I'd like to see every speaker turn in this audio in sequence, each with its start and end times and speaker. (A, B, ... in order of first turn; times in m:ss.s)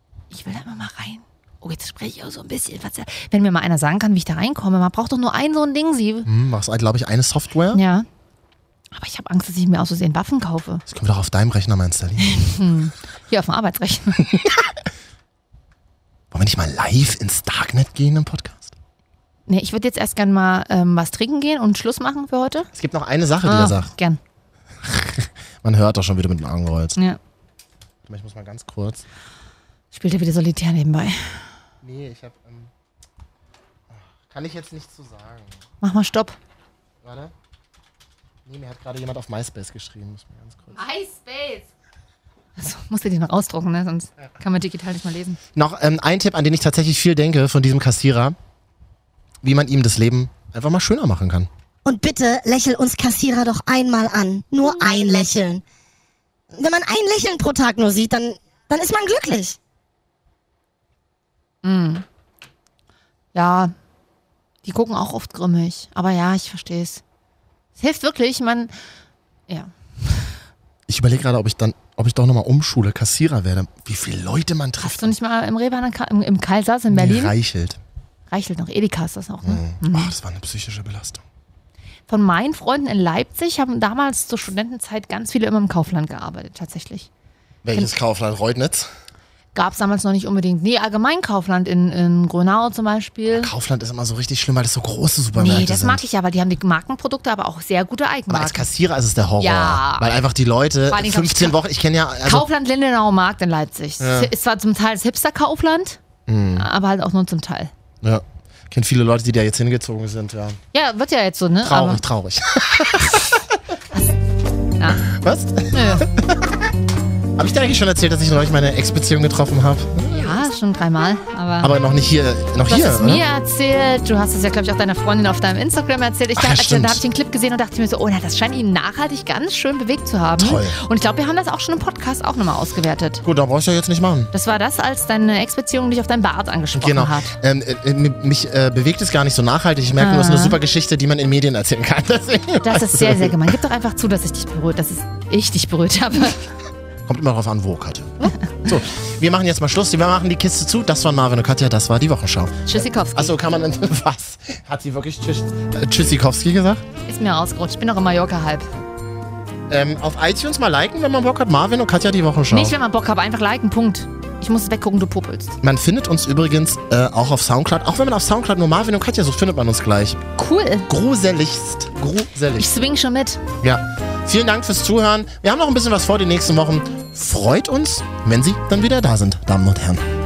0:00.3-0:06.3 A
0:06.2-0:07.8 B
0:07.7-0:08.0 A
0:08.9-0:10.8 A
0:10.9-0:12.5 B
0:12.2-0:14.3 A
0:16.3-0:18.7 B
0:19.5-0:22.7 A
0:22.7-0:23.9 B
0:23.4-0:24.2 A
0:24.8-0:27.0 B
0:28.0-0:29.0 B
0:29.9-0:31.5 A
0:31.8-0:32.7 B
0:33.9-0:35.6 B
0:35.8-0:36.4 A
0:37.0-0:37.3 B
0:38.4-0:40.8 B
0:40.7-0:41.7 A
0:42.6-0:45.4 A
0:45.5-0:48.4 B
0:49.4-0:51.5 B
0:51.8-0:55.6 C
0:56.5-0:59.6 C
1:01.6-1:02.0 A
1:03.3-1:03.7 A
1:04.6-1:07.0 A
1:07.8-1:08.7 A
1:09.5-1:10.3 A
1:10.9-1:15.1 B
1:14.8-1:17.4 A
1:16.9-1:17.8 B
1:18.3-1:20.1 A
1:19.4-1:21.2 B
1:22.1-1:27.1 A
1:27.6-1:28.9 B
1:29.5-1:33.5 A
1:33.3-1:36.0 B
1:35.3-1:38.7 A
1:38.3-1:42.5 B
1:39.4-1:40.1 A
1:40.9-1:41.6 A
1:42.2-1:46.0 A
1:44.0-1:44.3 B
1:46.3-1:46.7 B
1:46.5-1:47.7 A
1:48.0-1:50.6 B
1:50.7-1:52.0 A
1:51.6-1:53.5 B
1:54.8-1:55.0 A
1:55.0-1:56.6 B
1:55.7-1:56.1 A
1:57.4-2:00.4 B
2:00.1-2:01.7 A
2:01.6-2:03.2 B
2:02.7-2:13.2 A
2:06.4-2:07.0 B
2:10.4-2:10.8 B
2:13.2-2:14.3 B
2:14.3-2:17.4 A
2:16.7-2:23.5 B
2:20.0-2:20.6 A
2:22.6-2:26.5 A
2:27.0-2:36.8 B
2:32.7-2:33.3 A
2:37.1-2:38.7 A
2:39.7-2:42.8 B
2:42.5-2:45.6 A
2:45.6-2:50.2 B
2:50.4-2:50.9 A
2:50.9-2:52.7 B
2:52.6-2:53.4 A
2:53.6-3:00.0 B